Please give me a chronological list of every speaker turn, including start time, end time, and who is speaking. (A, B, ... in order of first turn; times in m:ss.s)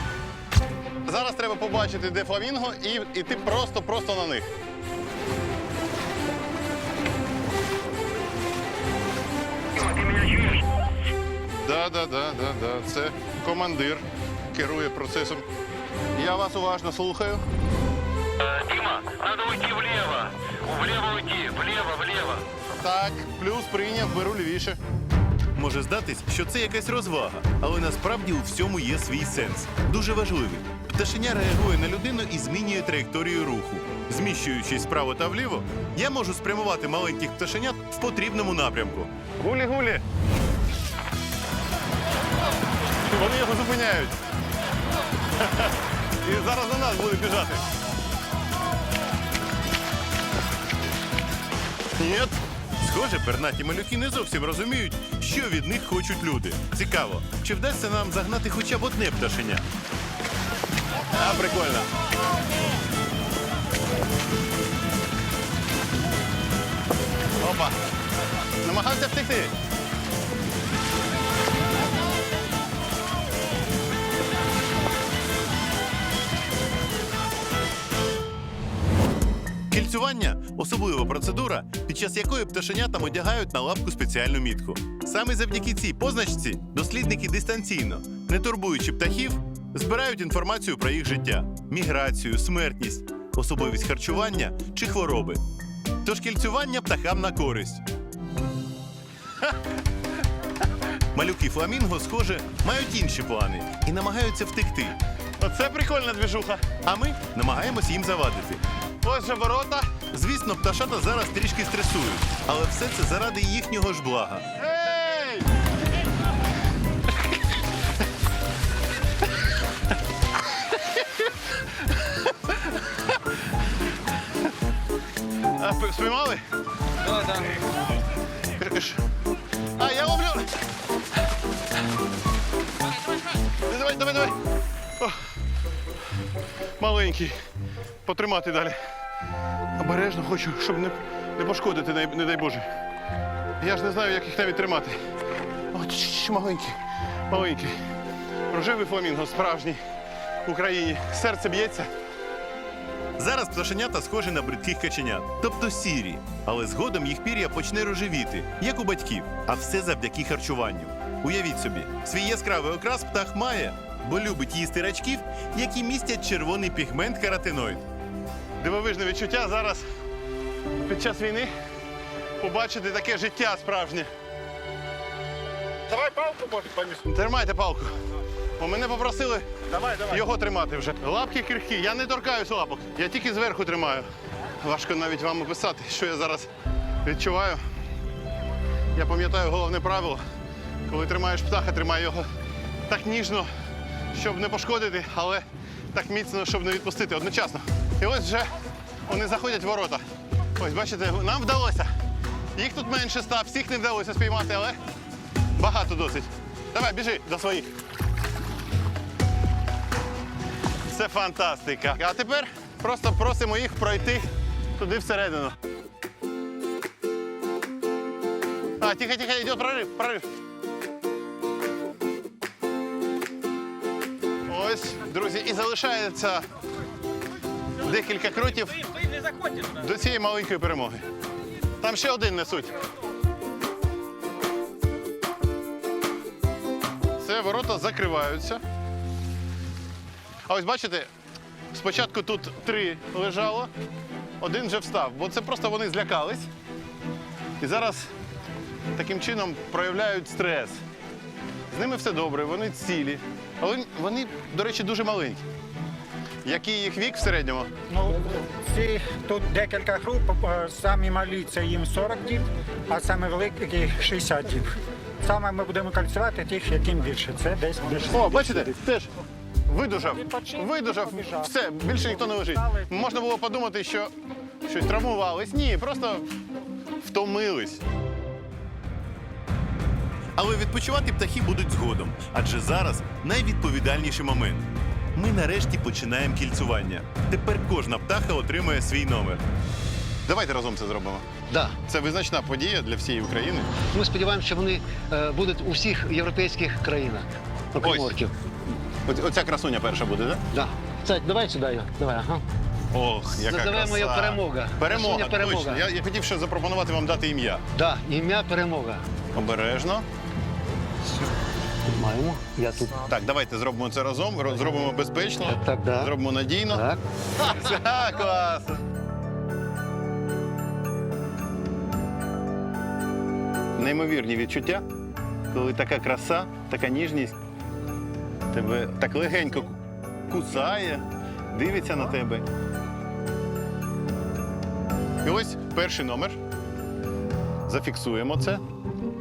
0:01.0-0:04.5 A
0:11.5-0:15.4 A
0:16.1-0:17.4 A
0:18.4-0:22.4 B
0:22.8-0:24.8 A
0:25.5-0:39.1 C
0:39.3-0:40.0 A
0:43.0-0:44.2 A
0:45.4-0:45.7 A
0:46.2-0:47.6 A
0:52.0-0:52.3 A
0:52.8-0:59.6 C
1:01.1-1:01.9 A
1:07.4-1:07.8 A
1:08.6-1:09.5 A
1:19.7-1:35.4 C
1:36.0-1:37.8 C
1:41.1-1:45.0 C
1:45.4-1:46.8 A
1:46.8-1:48.6 C
1:49.0-1:50.0 A
1:50.0-1:54.5 C
1:54.5-1:55.5 A
2:05.5-2:06.4 A
2:08.6-2:09.0 A
2:09.8-2:10.5 A
2:13.5-2:14.3 A
2:15.0-2:15.3 A
2:16.8-2:17.4 A
2:18.0-2:18.8 A
2:19.8-2:22.7 A
2:23.6-2:25.0 A
2:25.7-2:26.8 A
2:27.3-2:27.8 A
2:28.5-2:29.8 A
2:30.4-2:31.9 A
2:33.2-2:47.8 C
2:48.6-2:49.9 A
2:50.8-2:51.5 A
2:52.4-2:54.1 A
2:56.1-2:58.0 A
2:58.6-3:04.1 A
3:04.6-3:06.5 A
3:07.0-3:07.6 A
3:08.9-3:10.2 A
3:10.9-3:12.3 A
3:12.9-3:13.5 A
3:14.1-3:18.5 A
3:19.0-3:20.0 A
3:20.6-3:21.9 A
3:22.5-3:24.8 A
3:25.5-3:27.7 A
3:30.9-3:35.6 A
3:38.8-3:40.3 A
3:44.4-3:46.4 A
3:47.8-3:51.0 A
3:51.8-3:52.8 A
3:57.2-3:58.6 A
4:00.5-4:01.1 A
4:01.7-4:03.7 A
4:04.4-4:06.5 A
4:07.6-4:08.1 A
4:08.9-4:10.8 A
4:11.7-4:15.4 A
4:16.4-4:17.7 A
4:17.9-4:28.6 D
4:27.9-4:29.1 A
4:29.7-4:34.1 A
4:30.2-4:31.5 D
4:34.6-4:36.3 A
4:37.0-4:37.8 A
4:40.4-4:49.4 C
4:50.2-4:51.2 A
4:51.5-4:51.8 E
4:51.8-4:53.7 A
4:53.9-4:58.3 E
4:57.8-4:58.1 A
4:59.0-5:00.4 A
5:00.5-5:02.4 E
5:02.9-5:07.6 A
5:03.4-5:05.8 E
5:07.7-5:09.0 E
5:09.3-5:10.0 A
5:11.9-5:13.0 E
5:13.0-5:16.8 A
5:15.4-5:16.1 E
5:16.7-5:17.0 E
5:17.4-5:18.8 A
5:17.4-5:18.6 C
5:23.8-5:24.8 A
5:25.5-5:26.5 C
5:26.1-5:27.3 A
5:28.5-5:29.7 A
5:30.3-5:32.3 C
5:31.5-5:32.4 A
5:35.2-5:36.4 A
5:35.7-5:36.2 C
5:37.7-5:38.6 A